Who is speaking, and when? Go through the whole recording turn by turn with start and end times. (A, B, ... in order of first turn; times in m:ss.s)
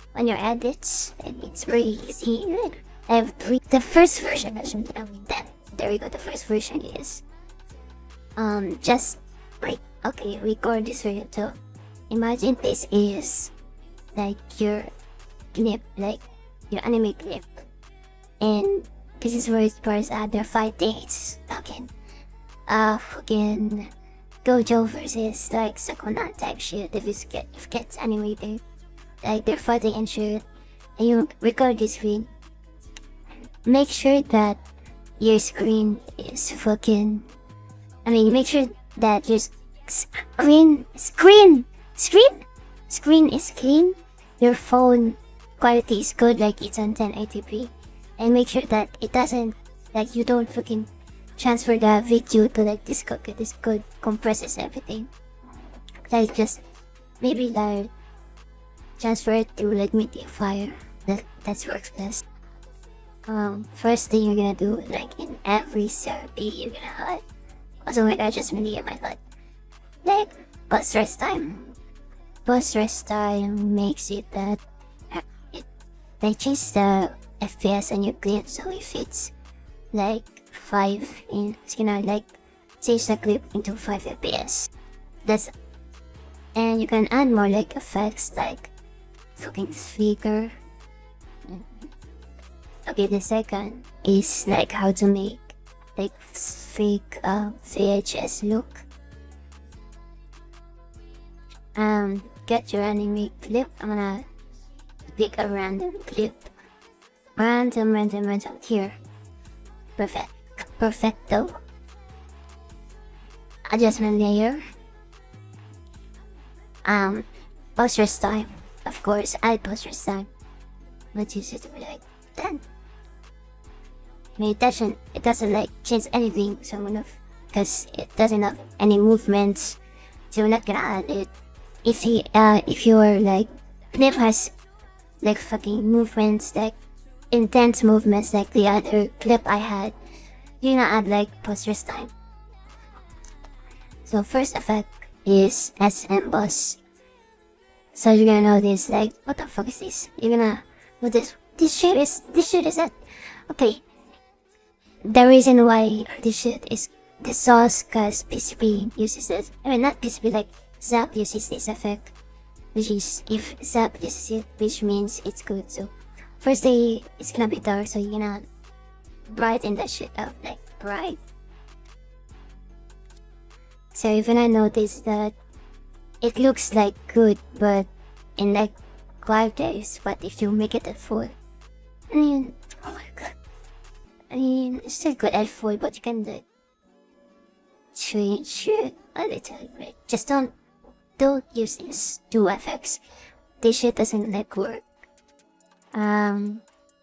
0:00.1-0:07.2 A
0:08.4-0:11.6 A
0:12.1-0:13.5 A
0:14.2-0:14.9 A
0:15.5-0:17.5 A
0:18.4-0:21.9 A
0:22.7-0:23.9 A
0:24.4-0:28.6 A
0:29.2-0:30.4 A
0:31.0-0:32.3 A
0:33.6-0:34.6 A
0:35.2-0:37.3 A
0:38.0-0:55.1 A
0:56.1-0:56.6 A
0:57.2-0:57.9 A
0:59.0-1:02.2 A
1:03.3-1:07.2 A
1:07.9-1:09.2 A
1:10.0-1:11.7 A
1:12.5-1:14.6 A
1:15.1-1:15.7 A
1:16.2-1:19.3 A
1:19.9-1:24.7 A
1:26.6-1:28.7 A
1:29.4-1:30.5 A
1:31.5-1:31.9 A
1:32.9-1:38.8 A
1:41.8-1:44.3 A
1:45.1-1:46.5 A
1:47.4-1:49.0 A
1:50.0-1:51.6 A
1:53.7-1:54.6 A
1:56.9-2:00.3 A
2:01.1-2:02.6 A
2:04.4-2:09.8 A
2:10.3-2:11.3 A
2:11.8-2:14.5 A
2:15.2-2:16.8 A
2:17.3-2:20.0 A
2:20.6-2:22.1 A
2:24.1-2:26.8 A
2:27.9-2:33.0 A
2:33.5-2:33.8 A
2:35.1-2:42.1 A
2:42.8-2:48.4 A
2:49.3-2:51.2 A
2:53.9-2:55.4 A
2:56.2-3:01.4 A
3:02.1-3:03.3 A
3:04.3-3:06.4 A
3:08.0-3:10.5 A
3:11.2-3:13.0 A
3:13.6-3:14.8 A
3:15.9-3:16.6 A